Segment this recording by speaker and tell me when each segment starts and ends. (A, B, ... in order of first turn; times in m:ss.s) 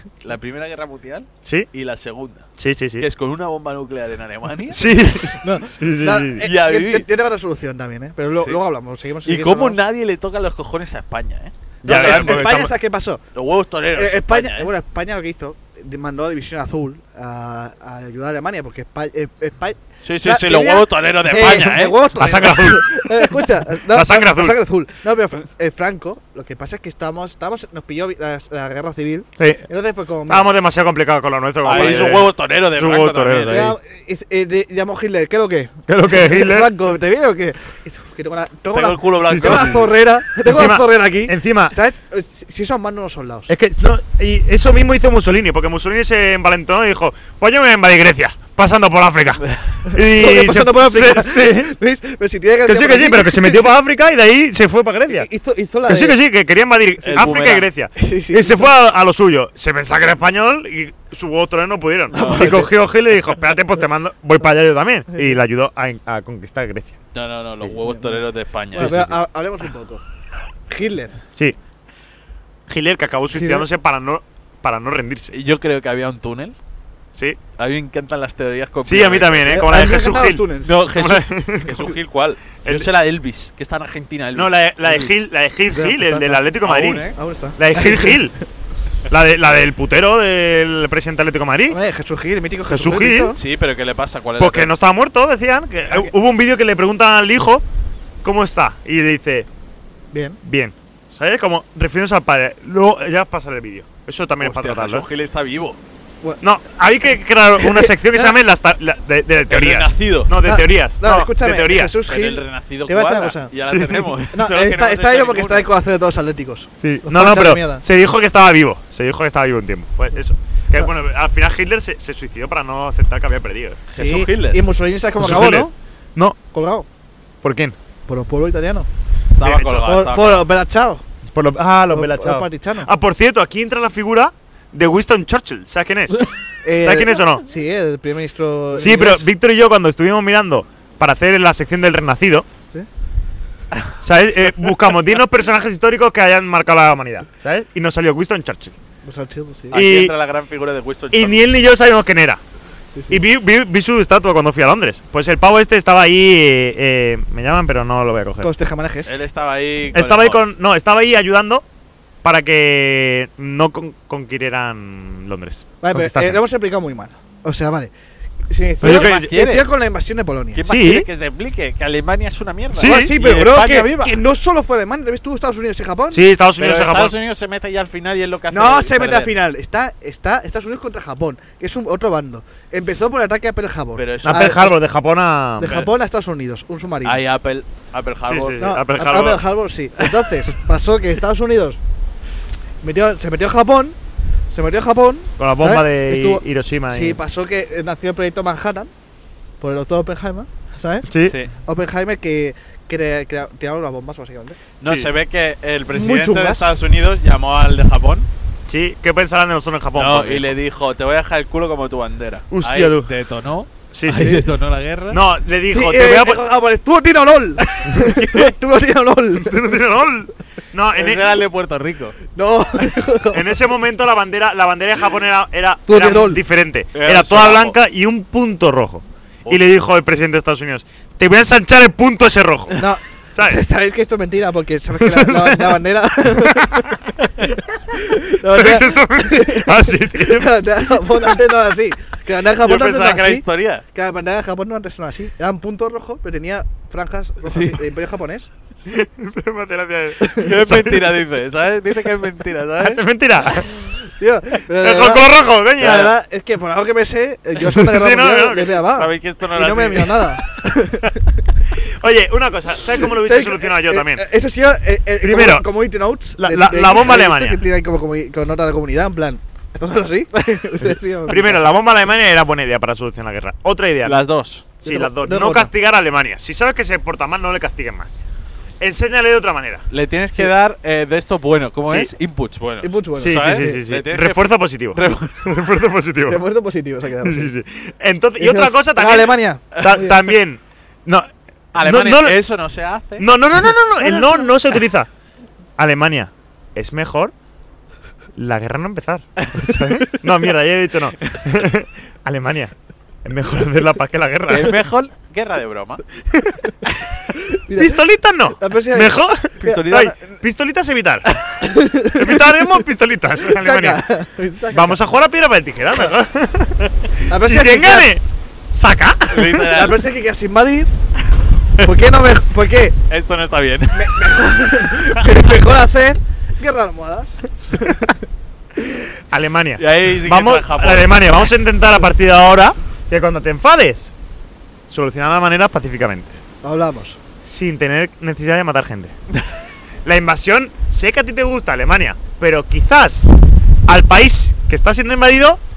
0:00.2-0:02.5 A
0:02.6-0:03.0 B
0:03.0-0:04.9 A
0:04.6-0:09.8 C
0:04.7-0:06.4 B
0:06.4-0:07.1 A
0:09.2-0:12.5 A
0:11.8-0:12.7 B
0:11.8-0:13.2 C
0:13.3-0:14.7 A
0:13.9-0:30.5 C
0:20.0-0:22.0 A
0:22.1-0:24.6 B
0:29.4-0:29.6 B
0:30.3-0:33.8 B
0:31.6-0:33.7 A
0:31.6-0:32.1 C
0:33.5-0:43.5 C
0:35.9-0:36.7 B
0:38.7-0:39.9 A
0:39.3-0:39.8 B
0:40.4-0:41.7 B
0:43.5-0:51.7 B
0:49.9-0:53.7 C
0:52.6-0:55.3 B
0:55.1-0:56.2 C
0:55.9-1:07.0 B
0:57.0-0:57.4 C
0:57.0-0:57.7 A
0:58.0-0:58.7 C
1:02.1-1:02.7 A
1:02.1-1:02.7 C
1:07.1-1:09.1 A
1:07.8-1:10.0 C
1:08.7-1:09.1 B
1:10.7-1:11.2 C
1:12.7-1:15.3 B
1:13.3-1:13.7 C
1:15.3-1:16.6 A
1:17.6-1:19.6 A
1:18.8-1:21.8 B
1:19.4-1:20.8 C
1:20.6-1:25.1 A
1:22.6-1:22.9 B
1:24.3-1:28.4 B
1:25.7-1:26.5 C
1:26.6-1:27.2 A
1:27.1-1:28.2 C
1:29.1-1:31.8 B
1:31.7-1:33.4 C
1:32.7-1:33.4 B
1:33.4-1:34.7 A
1:34.4-1:37.6 B
1:38.2-1:39.5 B
1:40.1-1:40.4 C
1:40.4-1:45.0 B
1:44.4-1:45.8 A
1:46.4-1:52.0 B
1:47.6-1:48.4 C
1:49.5-1:50.3 A
1:50.4-1:53.5 C
1:52.0-1:55.7 A
1:53.6-1:54.1 B
1:54.3-1:57.8 C
1:56.8-2:03.8 B
2:03.9-2:04.6 A
2:03.9-2:05.7 C
2:05.2-2:06.4 B
2:06.5-2:06.9 C
2:07.4-2:07.7 B
2:08.1-2:08.9 C
2:09.3-2:10.4 A
2:09.4-2:10.0 B
2:09.8-2:11.0 C
2:11.3-2:16.2 B
2:11.9-2:12.9 C
2:16.6-2:19.3 C
2:16.8-2:17.4 B
2:18.8-2:22.4 B
2:24.0-2:28.8 B
2:29.0-2:29.8 C
2:29.7-2:31.4 A
2:29.7-2:30.1 B
2:31.1-2:32.4 B
2:33.1-2:38.5 B
2:38.4-2:39.1 C
2:39.0-2:40.4 A
2:39.9-2:41.6 B
2:42.2-2:46.4 B
2:45.8-2:47.9 C
2:48.5-2:50.6 C
2:48.8-2:49.3 B
2:48.8-2:49.7 A
2:50.5-2:54.2 A
2:50.7-2:51.1 B
2:52.8-2:53.1 B
2:52.8-2:56.2 C
2:56.1-2:57.1 B
2:56.6-2:59.3 A
2:58.5-3:04.8 C
3:04.0-3:04.6 A
3:04.2-3:05.8 B
3:05.6-3:07.2 C
3:07.0-3:08.6 A
3:08.3-3:09.4 B
3:08.6-3:11.8 C
3:12.8-3:14.0 C
3:14.5-3:18.9 C
3:15.4-3:17.2 B
3:19.6-3:24.6 C
3:21.1-3:21.4 B
3:21.2-3:21.5 A
3:24.8-3:28.3 A
3:25.9-3:26.7 C
3:28.7-3:30.5 B
3:29.9-3:35.2 A
3:32.5-3:33.1 B
3:33.9-3:34.5 B
3:35.1-3:36.4 B
3:35.7-3:39.8 C
3:38.0-3:38.4 A
3:39.4-3:41.4 B
3:40.9-3:42.2 A
3:42.3-3:43.6 C
3:43.3-3:53.6 B
3:45.9-3:46.4 C
3:46.9-3:47.8 A
3:52.8-3:56.9 C
3:55.0-3:57.0 B
3:57.9-4:00.5 B
3:57.9-4:08.5 C
4:02.6-4:03.8 A
4:07.4-4:07.8 A
4:08.8-4:11.2 B
4:10.2-4:10.5 C
4:10.3-4:13.0 A
4:12.8-4:13.9 B
4:14.0-4:21.2 C
4:14.6-4:16.1 B
4:15.8-4:16.1 A
4:17.6-4:18.8 B
4:18.9-4:20.3 A
4:21.7-4:24.2 B
4:23.0-4:31.7 C
4:25.2-4:25.7 B
4:26.4-4:27.6 B
4:31.2-4:34.2 B
4:34.0-4:34.6 A
4:34.8-4:38.2 B
4:34.8-4:35.7 C
4:38.8-4:39.8 B
4:39.9-4:45.4 A
4:41.8-4:42.1 B
4:42.8-4:43.8 C
4:43.2-4:46.4 B
4:46.3-4:47.5 C
4:47.2-4:52.4 B
4:48.4-4:50.2 C
4:51.7-4:53.3 A
4:53.2-4:55.1 B
4:54.0-4:54.8 C
4:55.8-4:57.3 B
4:58.4-5:02.7 B
4:59.4-5:00.2 A
5:03.2-5:04.8 B
5:04.5-5:06.0 A
5:07.5-5:08.0 C
5:07.7-5:11.5 B
5:08.5-5:10.0 C
5:09.6-5:10.2 A
5:11.6-5:12.5 C
5:12.0-5:14.0 B
5:13.5-5:15.0 C
5:14.7-5:19.6 B
5:17.3-5:18.1 C
5:19.3-5:20.0 A
5:19.6-5:20.9 C
5:21.8-5:23.0 C
5:23.1-5:24.2 A
5:23.9-5:28.1 C
5:29.3-5:34.1 B
5:29.8-5:31.1 A
5:34.9-5:36.4 B
5:36.6-5:37.2 C
5:37.4-5:39.1 B
5:40.0-5:43.3 B
5:43.9-5:45.6 B